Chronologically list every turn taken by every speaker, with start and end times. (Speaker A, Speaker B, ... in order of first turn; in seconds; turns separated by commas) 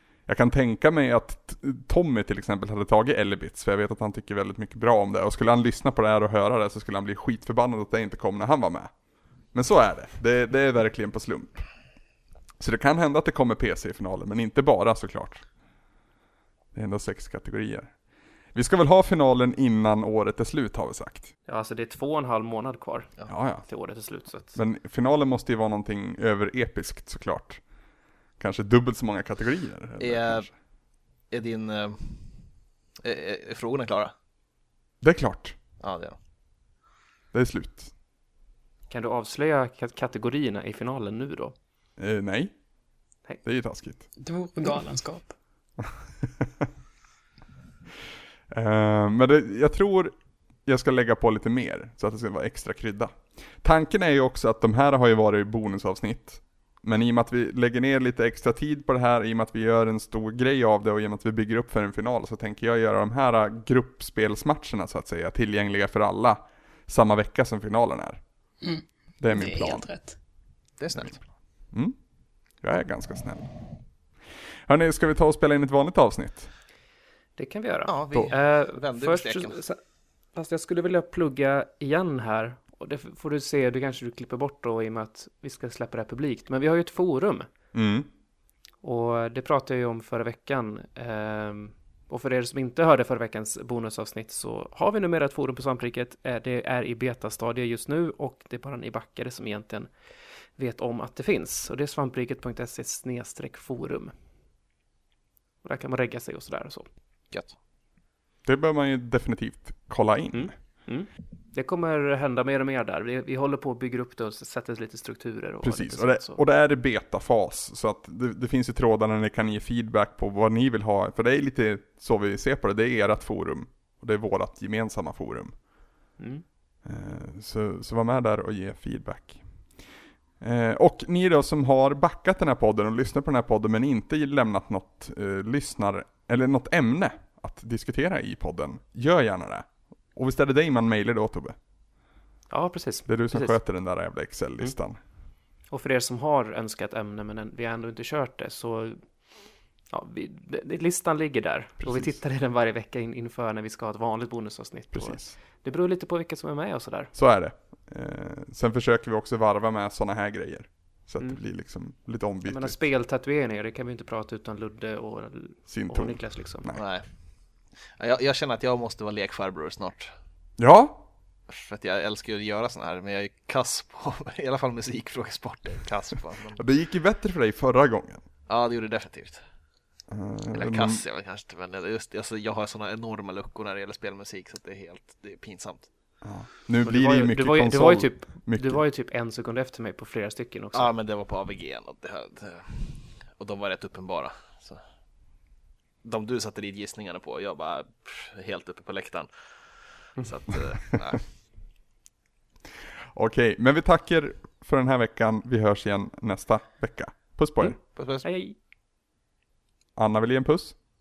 Speaker A: 0.3-8.9, Speaker A: 9.5-11.6, Speaker A: 12.6-15.4, Speaker A: 16.7-17.9, Speaker A: 18.5-21.3, Speaker B: 21.5-24.6, Speaker A: 23.3-23.6, Speaker A: 24.5-27.6, Speaker A: 28.4-30.5, Speaker C: 30.0-30.5, Speaker C: 31.3-32.2, Speaker C: 33.0-34.1, Speaker A: 35.0-35.6, Speaker C: 35.8-36.1, Speaker A: 37.3-37.9, Speaker B: 38.9-41.5, Speaker A: 42.0-42.5, Speaker A: 43.4-44.0, Speaker D: 44.2-45.3, Speaker A: 46.2-46.6, Speaker A: 48.5-50.1, Speaker A: 50.6-68.2, Speaker D: 68.6-70.2, Speaker A: 69.2-69.9, Speaker C: 70.8-71.2, Speaker A: 72.6-73.5, Speaker A: 74.7-76.5, Speaker B: 77.4-79.8, Speaker C: 77.9-79.6, Speaker B: 80.3-87.5, Speaker A: 87.7-88.1, Speaker B: 88.8-99.9, Speaker B: 100.5-104.1, Speaker B: 105.6-106.9, Speaker A: 108.4-110.5, Speaker B: 110.3-116.4, Speaker A: 115.6-125.5, Speaker B: 126.2-126.4, Speaker A: 126.8-129.4, Speaker A: 130.4-141.6, Speaker B: 142.5-143.6, Speaker A: 143.1-145.0, Speaker B: 145.7-149.0, Speaker B: 149.9-157.1, Speaker A: 151.8-152.2, Speaker A: 154.9-155.3, Speaker A: 157.1-162.8, Speaker B: 162.4-166.7, Speaker A: 165.7-166.8, Speaker C: 166.7-167.0, Speaker C: 168.0-170.1, Speaker A: 170.6-171.0, Speaker C: 171.5-176.6, Speaker A: 176.6-178.2, Speaker C: 178.5-179.4, Speaker A: 180.1-181.0, Speaker C: 180.5-185.9, Speaker A: 186.2-188.8, Speaker B: 186.8-190.9, Speaker C: 190.7-194.8, Speaker C: 196.0-199.3, Speaker C: 200.0-201.2, Speaker A: 203.1-207.8, Speaker B: 207.6-208.6, Speaker C: 207.9-208.2, Speaker A: 209.9-210.7